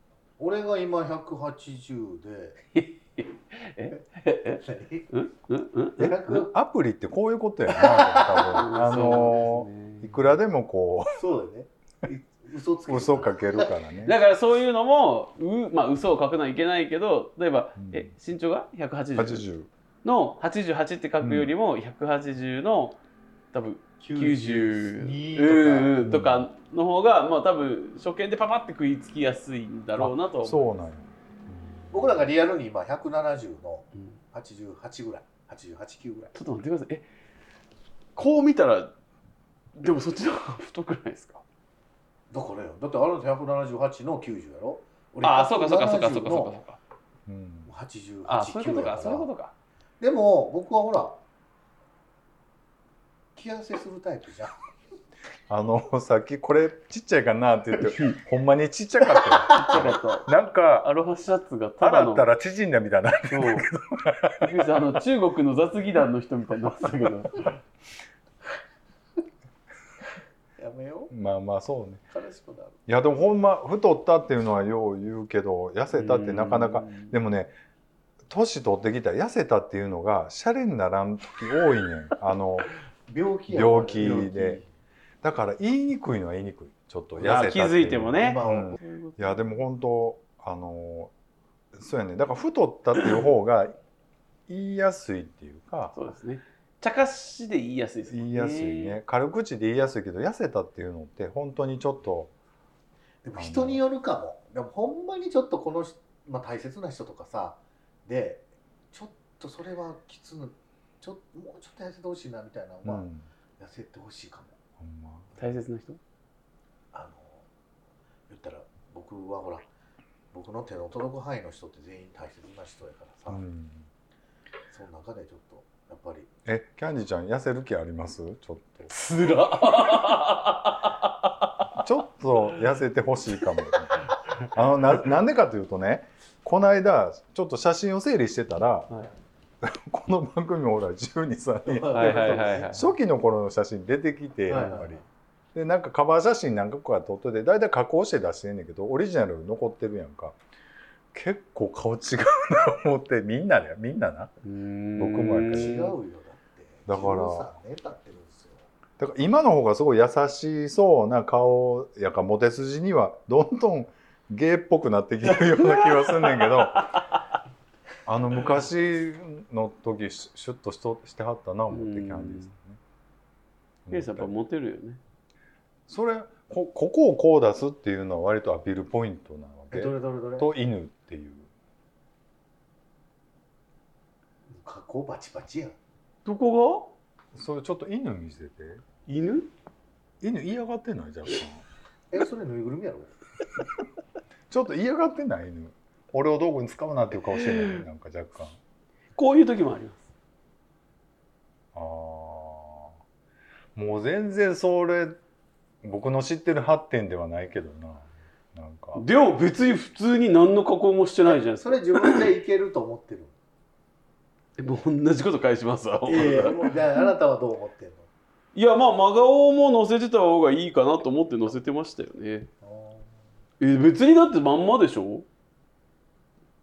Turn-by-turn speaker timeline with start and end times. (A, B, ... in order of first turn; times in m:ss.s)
0:00.4-0:02.6 A
0:02.7-0:06.4 B
0:04.6-0:05.1 A
0:06.0-0:06.5 A
0:06.0-0:11.2 C
0:07.7-0:09.3 A
0:08.5-0:10.2 B
0:11.1-0:13.7 A
0:12.9-0:14.2 C
0:14.0-0:19.4 B
0:17.8-0:18.1 C
0:19.2-0:19.7 C
0:20.0-0:23.0 B
0:21.2-0:21.5 C
0:23.5-0:30.7 B
0:24.0-0:26.0 A
0:26.0-0:26.5 C
0:30.0-0:32.2 C
0:31.9-0:36.3 A
0:36.3-0:37.0 B
0:38.2-0:38.9 B
0:39.7-0:41.4 B
0:42.3-0:46.6 A
0:45.2-0:46.8 B
0:47.3-0:47.7 C
0:47.6-0:49.3 A
0:48.3-0:49.5 B
0:50.0-0:51.2 A
0:53.4-0:54.5 A
0:55.5-1:00.9 C
0:59.5-1:00.3 B
1:00.8-1:02.2 B
1:01.8-1:04.5 C
1:03.3-1:03.7 B
1:04.4-1:07.6 B
1:10.6-1:11.1 A
1:11.1-1:12.0 C
1:12.1-1:12.8 A
1:12.9-1:17.6 C
1:15.9-1:17.1 B
1:18.3-1:22.7 C
1:23.1-1:24.6 A
1:23.5-1:24.6 C
1:25.2-1:31.1 C
1:27.2-1:29.4 B
1:28.2-1:28.8 A
1:31.7-1:33.8 C
1:34.5-1:35.9 C
1:35.9-1:39.0 B
1:38.1-1:42.3 C
1:43.2-1:53.1 A
1:43.4-1:43.8 C
1:52.8-1:53.2 C
1:53.6-1:54.6 A
1:54.8-1:55.3 C
1:55.4-1:56.0 B
1:56.9-1:57.4 A
1:58.3-1:59.6 A
2:00.3-2:03.4 A
2:03.3-2:03.9 C
2:04.7-2:06.3 A
2:06.4-2:08.9 C
2:08.9-2:11.6 B
2:11.8-2:18.9 C
2:19.6-2:25.0 C
2:21.6-2:22.8 A
2:21.9-2:22.8 B
2:24.5-2:25.0 A
2:24.5-2:24.9 B
2:25.5-2:30.4 C
2:31.1-2:34.3 C
2:34.4-2:35.9 B
2:35.0-2:35.9 C
2:35.5-2:38.7 A
2:36.8-2:37.5 C
2:39.0-2:46.9 C
2:45.3-2:47.0 B
2:48.0-2:52.8 C
2:51.7-2:52.5 B
2:53.8-2:54.3 C
2:53.9-2:55.0 B
2:55.9-3:01.5 C
2:59.7-3:00.5 A
3:04.5-3:05.8 A
3:06.2-3:06.9 B
3:07.3-3:08.8 C
3:09.1-3:09.5 B
3:10.2-3:11.6 C
3:12.1-3:13.1 A
3:14.5-3:18.6 C
3:19.2-3:20.1 B
3:21.7-3:22.9 C
3:23.7-3:25.2 C
3:25.8-3:29.0 C
3:28.9-3:32.2 B
3:31.2-3:33.3 A
3:34.6-3:37.0 B
3:36.0-3:38.1 A
3:38.5-3:42.5 B
3:42.6-3:43.1 A
3:43.6-3:45.3 B